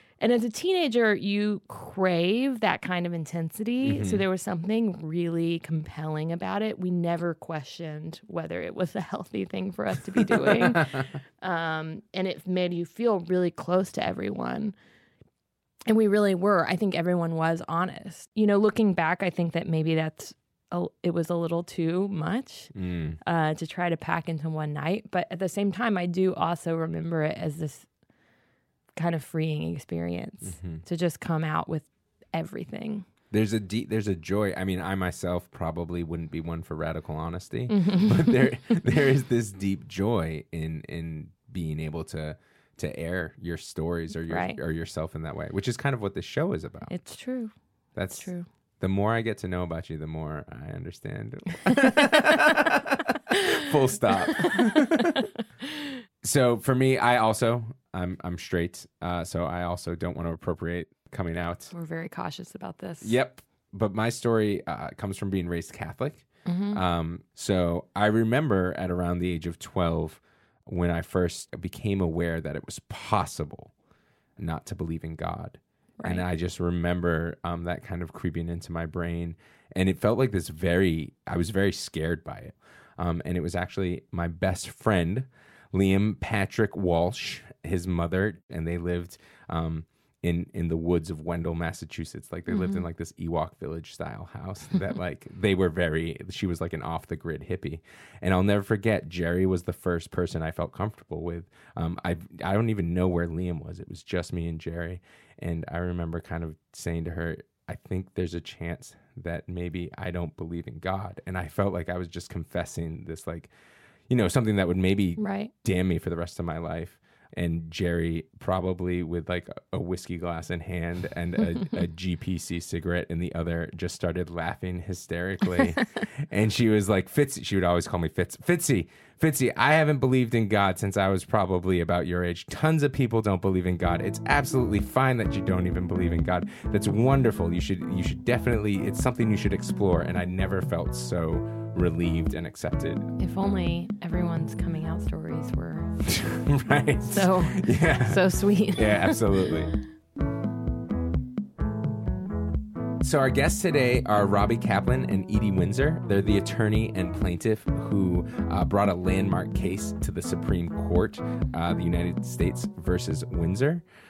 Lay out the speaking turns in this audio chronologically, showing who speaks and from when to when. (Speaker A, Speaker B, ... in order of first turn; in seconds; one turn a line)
Speaker A: 0.2-14.8
Speaker B: 3.8-4.2
Speaker A: 15.9-27.9
Speaker B: 22.7-23.2
Speaker A: 29.0-33.0
Speaker B: 30.4-30.8
Speaker B: 33.3-46.9
Speaker A: 37.7-38.4
Speaker A: 44.3-44.6
Speaker A: 46.9-47.5
Speaker B: 48.0-55.2
Speaker A: 48.0-48.5
Speaker B: 56.2-61.7
Speaker A: 61.7-63.1
Speaker B: 63.0-73.7
Speaker A: 66.5-66.8
Speaker B: 74.4-113.5
Speaker A: 92.5-92.9
Speaker B: 114.1-143.1
Speaker A: 115.2-115.5
Speaker A: 143.2-145.9
Speaker B: 146.1-149.8
Speaker A: 147.1-149.2
Speaker B: 153.0-163.8